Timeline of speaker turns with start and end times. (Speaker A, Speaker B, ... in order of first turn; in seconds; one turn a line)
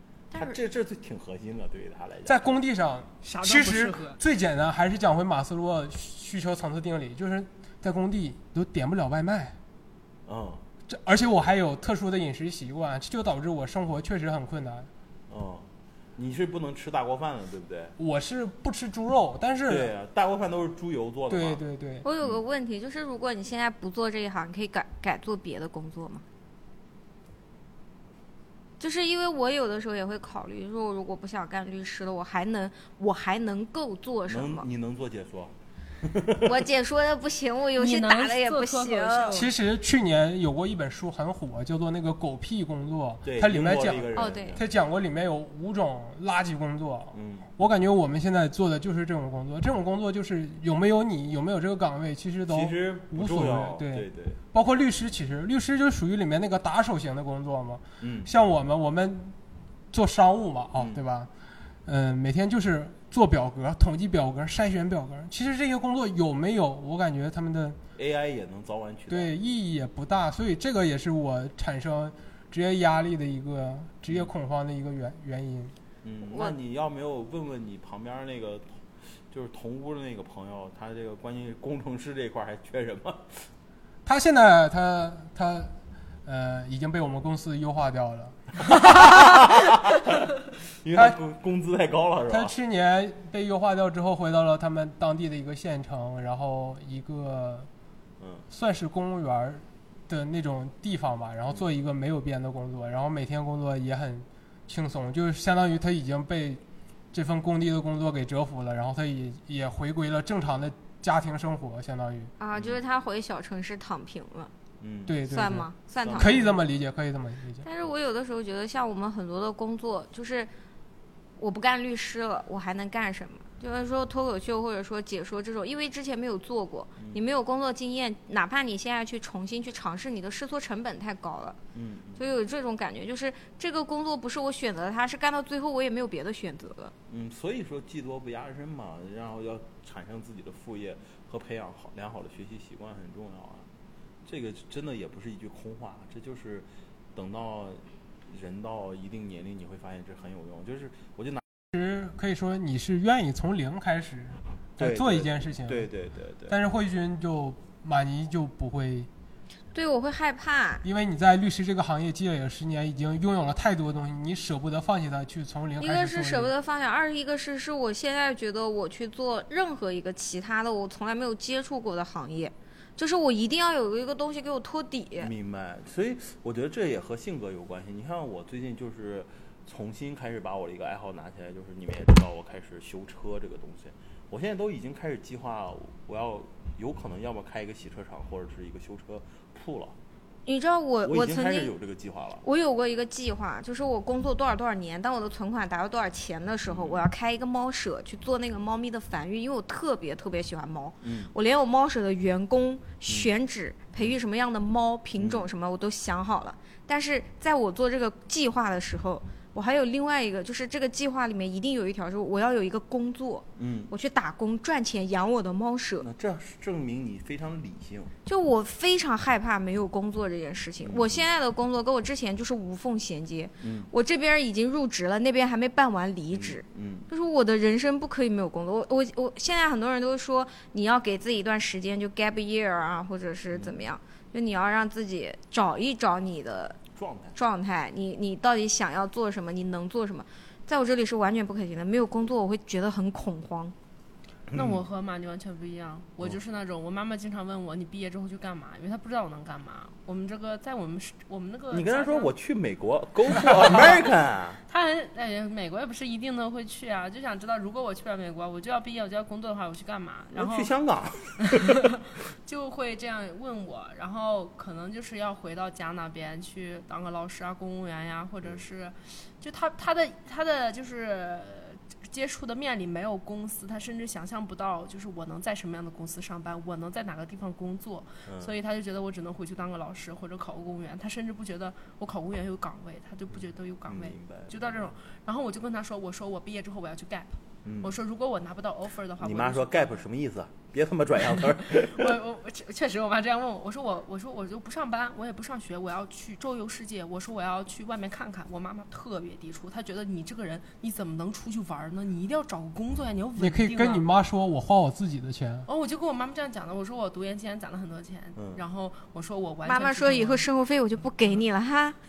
Speaker A: 0.3-0.6
Speaker B: 0.3-2.5
Speaker C: 2.3-9.6
Speaker D: 3.2-4.2
Speaker B: 10.3-10.6
Speaker C: 10.9-14.9
Speaker B: 15.3-17.9
Speaker C: 18.0-19.9
Speaker B: 19.7-21.6
Speaker C: 21.3-22.1
Speaker A: 22.0-26.2
Speaker A: 28.8-34.7
Speaker B: 34.3-36.7
Speaker A: 36.4-39.4
Speaker D: 37.8-39.5
Speaker C: 39.3-59.4
Speaker B: 43.2-44.7
Speaker A: 44.1-44.6
Speaker B: 47.1-47.5
Speaker B: 52.5-54.4
Speaker B: 58.0-58.3
Speaker C: 59.9-61.3
Speaker C: 61.9-67.8
Speaker B: 68.0-69.3
Speaker C: 69.1-75.7
Speaker B: 76.0-78.8
Speaker B: 79.3-83.5
Speaker C: 84.1-85.7
Speaker C: 86.3-89.1
Speaker B: 88.8-92.5
Speaker C: 92.3-97.7
Speaker B: 98.2-98.5
Speaker C: 98.5-106.6
Speaker C: 107.1-112.3
Speaker A: 112.4-114.5
Speaker B: 112.5-112.8
Speaker B: 114.8-115.2
Speaker C: 115.1-117.7
Speaker A: 115.3-116.5
Speaker B: 116.0-116.6
Speaker A: 117.6-120.5
Speaker A: 121.4-131.6
Speaker B: 131.7-132.3
Speaker A: 132.2-136.9
Speaker B: 137.1-143.7
Speaker B: 144.2-151.4
Speaker C: 151.7-155.9
Speaker B: 154.8-156.6
Speaker C: 156.5-159.1
Speaker A: 159.7-160.8
Speaker C: 160.8-166.5
Speaker A: 165.8-175.3
Speaker B: 175.2-190.0
Speaker A: 190.5-191.7
Speaker B: 191.0-192.4
Speaker A: 192.4-216.1
Speaker B: 196.7-197.1
Speaker B: 201.0-201.3
Speaker B: 205.2-205.5
Speaker B: 213.6-213.9
Speaker B: 216.0-218.1
Speaker A: 218.3-236.8
Speaker B: 220.8-221.3
Speaker B: 223.6-223.9
Speaker B: 226.3-227.1
Speaker B: 233.5-233.8
Speaker B: 236.9-237.4
Speaker A: 237.3-243.7
Speaker B: 244.5-244.8
Speaker D: 244.5-252.3
Speaker B: 251.7-254.6
Speaker D: 253.3-254.1
Speaker D: 254.7-260.7
Speaker B: 260.3-262.0
Speaker D: 261.5-290.0
Speaker B: 278.3-278.5
Speaker B: 283.9-284.8
Speaker B: 287.6-287.9
Speaker B: 289.2-292.2
Speaker D: 291.6-304.1
Speaker C: 303.4-305.7
Speaker D: 305.7-310.5
Speaker B: 308.4-308.6
Speaker A: 309.6-312.0